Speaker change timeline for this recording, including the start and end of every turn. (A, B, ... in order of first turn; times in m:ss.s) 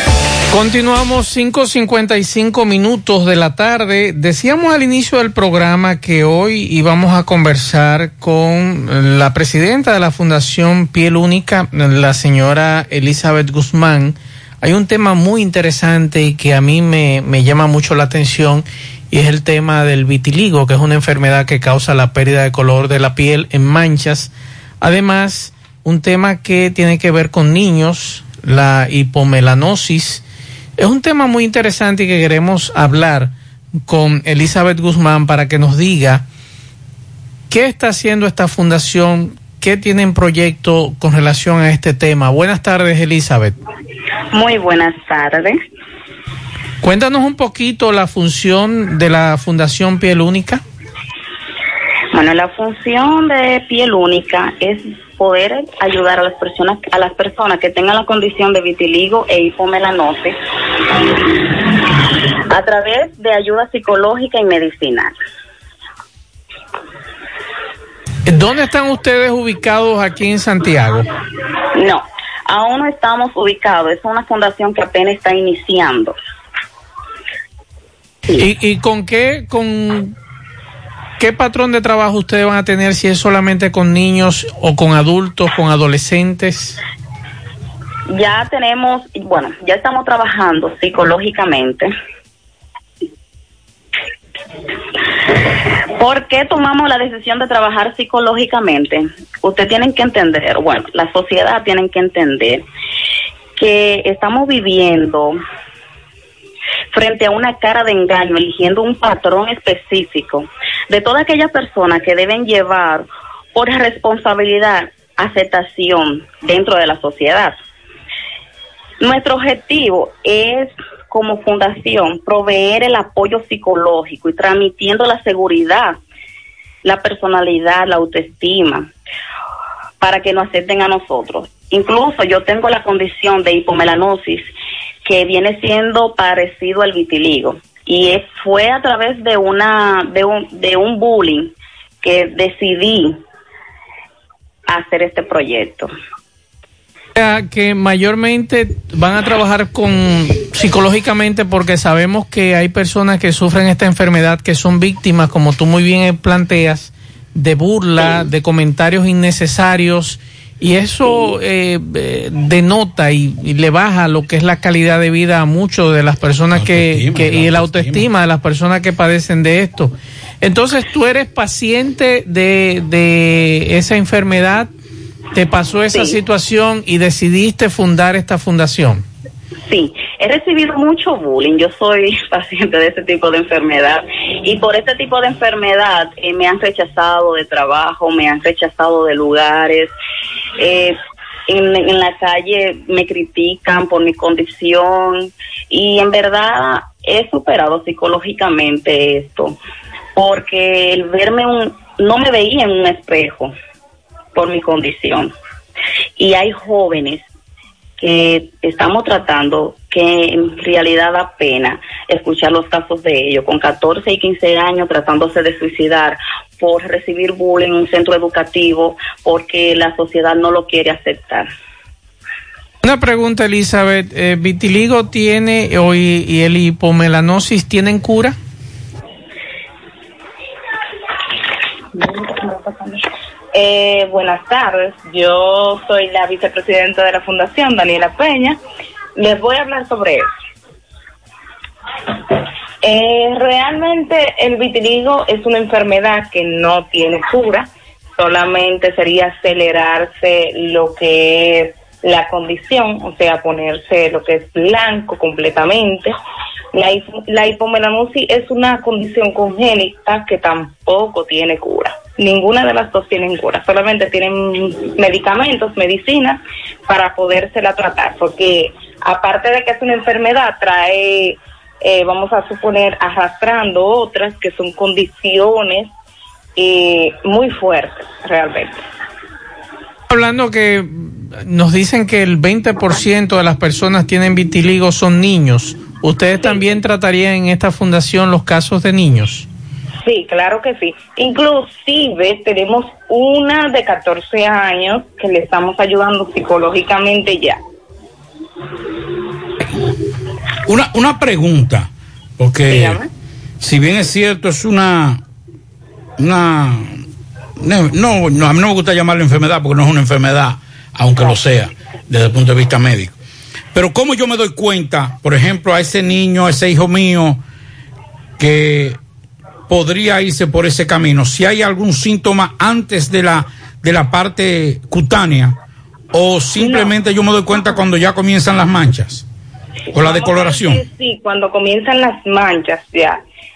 0:00.5-0:30.2 A
0:30.8-0:33.3 A
0:33.9-0:36.2 A
0:37.5-0:43.6 A
0:44.3-0:45.6 B
0:46.8-0:50.6 A
0:52.1-1:00.4 B
1:02.5-1:05.1 B
1:08.3-1:11.1 A
1:11.8-1:16.2 B
1:18.4-1:20.2 A
1:21.2-1:26.8 A
1:28.1-1:31.9 B
1:36.0-1:42.6 B
1:43.6-1:45.4 B
1:46.9-1:57.6 B
1:59.0-2:06.0 B
2:06.8-2:08.9 B
2:10.0-2:14.5 B
2:15.1-2:23.2 B
2:24.7-2:25.9 B
2:27.2-2:54.7 A
2:46.6-2:48.1 C
2:55.4-2:59.0 A
2:59.7-3:09.9 B
3:10.6-3:11.0 B
3:11.5-3:19.6 B
3:20.2-3:23.5 B
3:24.4-3:25.3 B
3:26.2-3:27.2 B
3:28.0-3:41.5 B
3:42.8-3:48.4 A
3:52.1-3:53.0 B
3:53.6-3:58.5 B
3:59.2-4:00.3 B
4:04.0-4:07.6 D
4:12.0-4:16.1 D
4:16.8-4:21.6 D
4:22.2-4:26.4 D
4:26.9-4:31.3 D
4:32.0-4:33.8 D
4:38.4-4:38.6 B
4:40.1-4:49.5 A
4:50.3-4:57.5 D
5:00.6-5:03.0 C
5:03.6-5:05.2 C
5:06.2-5:07.0 C
5:07.6-5:13.1 C
5:13.7-5:17.4 C
5:18.4-5:19.0 C
5:19.7-5:25.6 C
5:26.1-5:29.2 C
5:29.9-5:30.8 C
5:30.1-5:33.2 D